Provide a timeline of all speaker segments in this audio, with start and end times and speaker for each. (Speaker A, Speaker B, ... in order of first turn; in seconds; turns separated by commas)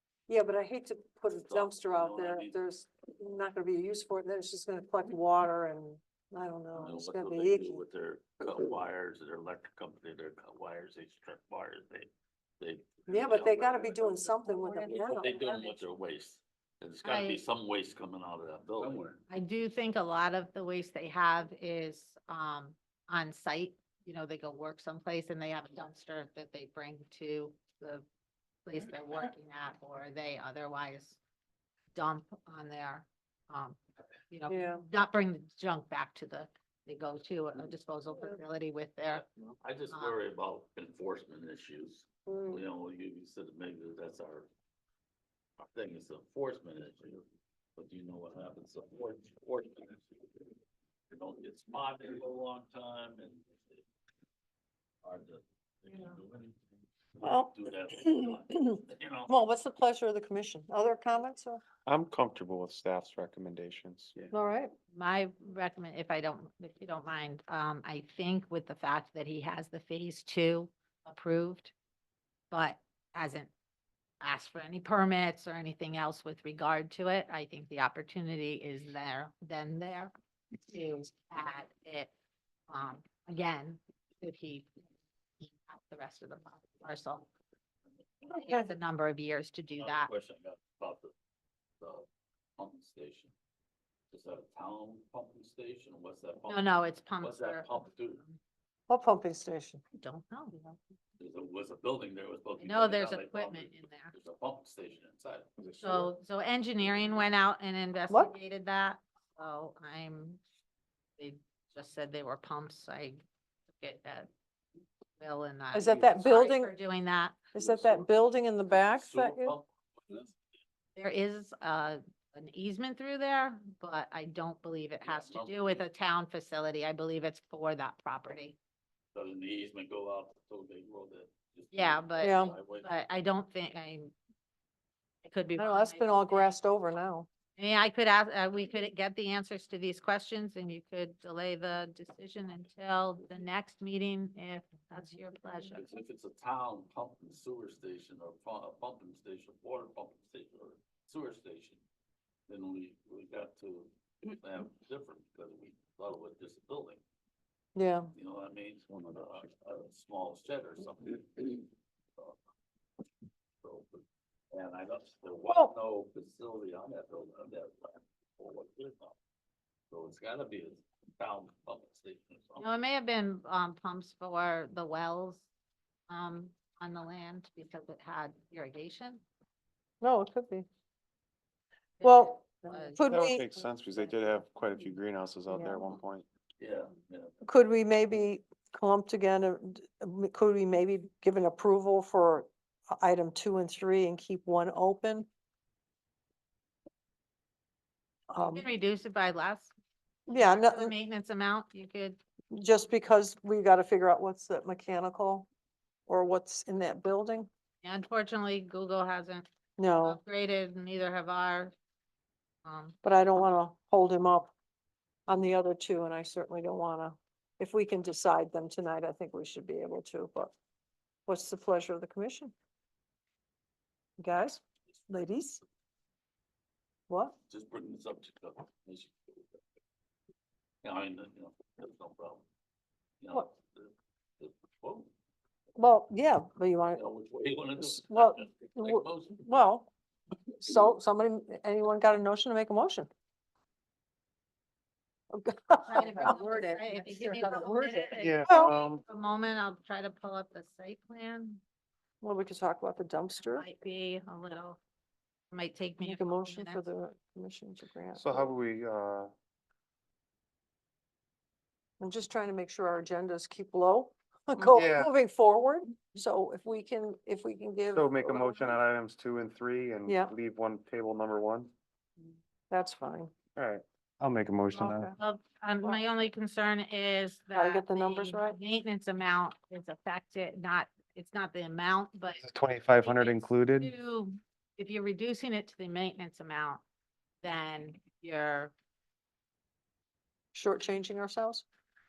Speaker A: 0.3-7.8, Speaker B: 1.5-2.5, Speaker B: 6.7-12.1, Speaker B: 12.6-19.2, Speaker A: 13.1-15.5, Speaker C: 17.0-17.4, Speaker C: 19.3-28.0, Speaker C: 28.6-31.2, Speaker C: 31.9-33.8, Speaker C: 34.3-39.2, Speaker A: 34.5-34.8, Speaker B: 39.1-44.5, Speaker C: 39.9-40.2, Speaker A: 42.3-42.6, Speaker B: 45.6-47.2, Speaker B: 47.8-50.3, Speaker B: 51.1-53.8, Speaker B: 55.0-56.5, Speaker B: 57.1-59.3, Speaker A: 57.2-61.6, Speaker D: 61.9-64.3, Speaker A: 64.3-64.7, Speaker C: 64.9-71.7, Speaker C: 72.5-73.5, Speaker C: 74.2-80.1, Speaker C: 80.7-82.1, Speaker C: 82.7-84.7, Speaker C: 85.4-87.2, Speaker B: 87.9-88.5, Speaker C: 88.3-90.1, Speaker B: 89.7-91.1, Speaker B: 91.8-92.0, Speaker B: 92.6-93.3, Speaker B: 94.1-98.2, Speaker C: 96.5-98.4, Speaker A: 98.9-99.8, Speaker C: 100.0-100.5, Speaker B: 101.2-105.5, Speaker C: 102.6-104.1, Speaker D: 105.6-106.1, Speaker C: 105.8-110.4, Speaker A: 108.1-108.3, Speaker C: 111.2-114.3, Speaker C: 115.2-117.5, Speaker A: 115.7-116.7, Speaker A: 117.5-119.5, Speaker B: 117.6-120.4, Speaker C: 121.0-128.6, Speaker B: 125.0-125.8, Speaker B: 129.1-132.9, Speaker C: 131.7-134.1, Speaker A: 132.2-132.6, Speaker C: 135.2-136.6, Speaker A: 135.6-137.3, Speaker C: 137.6-145.9, Speaker B: 145.7-151.8, Speaker B: 152.5-157.0, Speaker A: 157.7-158.1, Speaker B: 158.1-161.6, Speaker B: 163.6-164.0, Speaker B: 164.5-169.2, Speaker B: 169.9-172.7, Speaker C: 172.6-175.4, Speaker C: 176.1-179.2, Speaker A: 180.0-180.7, Speaker C: 182.0-183.4, Speaker A: 182.0-183.6, Speaker D: 183.1-186.2, Speaker A: 185.5-186.0, Speaker B: 186.6-187.3, Speaker A: 187.4-195.3, Speaker A: 198.3-198.7, Speaker C: 198.4-199.7, Speaker A: 200.3-200.9, Speaker C: 200.3-202.2, Speaker A: 202.5-205.5, Speaker A: 206.1-207.5, Speaker C: 207.8-209.5, Speaker A: 209.8-210.2, Speaker C: 210.0-211.7, Speaker C: 212.6-212.9, Speaker A: 213.0-214.5, Speaker A: 215.3-220.5, Speaker A: 221.3-222.5, Speaker A: 224.2-225.6, Speaker A: 227.1-227.3, Speaker B: 227.5-229.6, Speaker B: 230.8-232.4, Speaker B: 233.2-235.1, Speaker A: 235.8-237.0, Speaker B: 236.9-239.5, Speaker A: 237.8-239.9, Speaker A: 240.6-243.1, Speaker A: 245.3-248.7, Speaker C: 245.8-251.6, Speaker D: 248.2-249.0, Speaker A: 252.2-253.6, Speaker C: 253.3-254.8, Speaker C: 255.5-256.8, Speaker A: 256.0-258.5, Speaker D: 258.1-259.3, Speaker A: 262.0-268.8, Speaker D: 264.6-265.1, Speaker D: 267.9-271.7, Speaker A: 270.1-270.3, Speaker A: 272.7-273.3, Speaker D: 273.6-275.1, Speaker A: 274.7-275.1, Speaker C: 275.1-282.4, Speaker A: 277.5-278.6, Speaker D: 282.4-283.9, Speaker C: 283.0-286.8, Speaker C: 287.4-288.7, Speaker A: 290.5-291.6